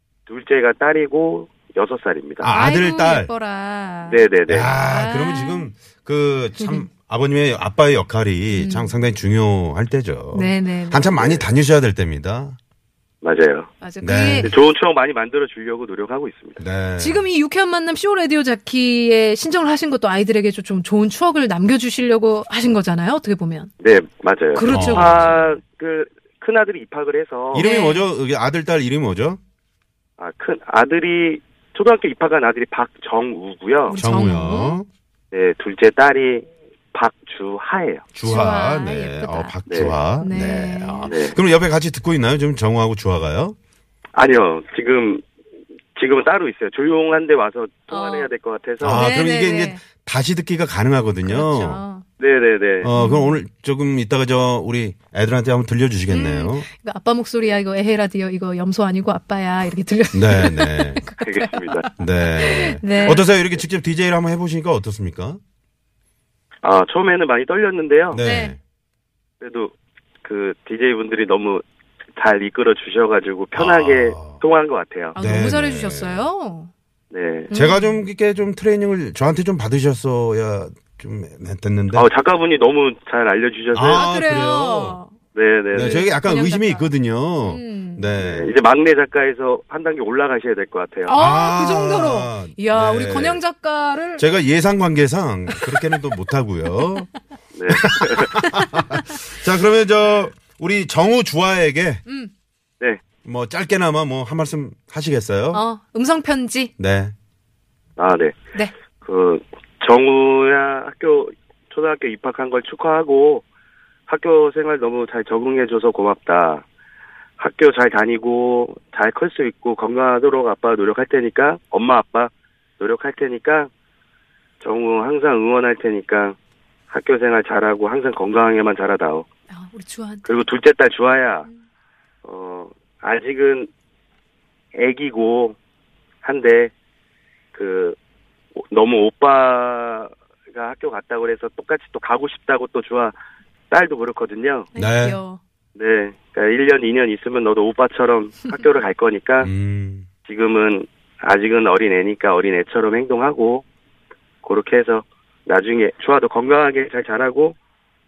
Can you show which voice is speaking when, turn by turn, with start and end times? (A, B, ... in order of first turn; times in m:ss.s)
0:00.3-0:02.5 A
0:02.4-0:03.3 B
0:02.5-0:05.7 C
0:04.1-0:04.7 A
0:04.5-0:12.6 B
0:06.6-0:06.9 C
0:08.5-0:09.0 C
0:10.3-0:11.1 C
0:11.2-0:11.5 A
0:13.2-0:13.7 A
0:13.8-0:14.5 C
0:14.0-0:14.6 B
0:14.4-0:16.6 A
0:16.6-0:17.3 B
0:17.0-0:23.7 C
0:23.8-0:27.7 A
0:24.5-0:25.5 C
0:24.7-0:25.4 B
0:27.5-0:29.4 B
0:27.6-0:28.1 C
0:30.2-0:34.0 A
0:33.9-0:34.8 C
0:34.0-0:34.9 B
0:35.3-0:38.1 A
0:38.1-0:43.6 B
0:38.2-0:39.6 C
0:39.7-0:40.0 A
0:40.2-0:41.2 C
0:41.1-0:41.4 A
0:44.1-0:45.2 A
0:46.0-0:49.1 A
0:47.9-0:48.3 C
0:48.8-0:51.8 B
0:48.9-0:49.8 C
0:51.2-0:52.0 C
0:52.2-0:52.9 A
0:52.8-0:56.7 B
0:52.9-0:53.4 C
0:56.1-1:03.2 C
1:00.1-1:01.1 B
1:01.2-1:01.9 A
1:02.0-1:05.4 B
1:06.6-1:08.2 A
1:08.1-1:08.6 B
1:08.2-1:08.6 C
1:09.4-1:11.6 A
1:12.2-1:15.2 A
1:13.5-1:14.4 B
1:15.2-1:16.7 C
1:15.2-1:16.3 B
1:17.1-1:17.5 A
1:17.5-1:18.0 C
1:17.5-1:22.1 B
1:21.9-1:24.1 A
1:23.7-1:25.0 B
1:23.9-1:25.2 C
1:25.3-1:26.0 A
1:25.7-1:28.6 B
1:25.8-1:28.1 C
1:28.2-1:31.2 A
1:31.0-1:34.3 C
1:31.1-1:33.4 B
1:34.2-1:37.1 B
1:35.5-1:35.8 C
1:37.6-1:38.4 A
1:37.7-1:42.0 B
1:38.5-1:39.0 C
1:42.1-1:42.3 C
1:43.2-1:45.6 B
1:45.5-1:46.7 C
1:46.8-1:47.1 B
1:48.0-1:48.4 A
1:49.0-1:53.4 A
1:54.1-1:56.6 A
1:57.4-2:03.7 A
2:04.6-2:06.4 A
2:06.9-2:09.3 A
2:09.5-2:10.3 C
2:10.2-2:11.5 A
2:12.2-2:13.7 A
2:14.8-2:15.6 A
2:16.2-2:16.7 A
2:17.5-2:18.0 A
2:18.6-2:23.2 A
2:23.7-2:24.7 A
2:24.8-2:25.4 C
2:24.8-2:25.2 B
2:25.8-2:29.5 A
2:29.4-2:30.1 B
2:30.2-2:33.6 A
2:34.4-2:37.6 A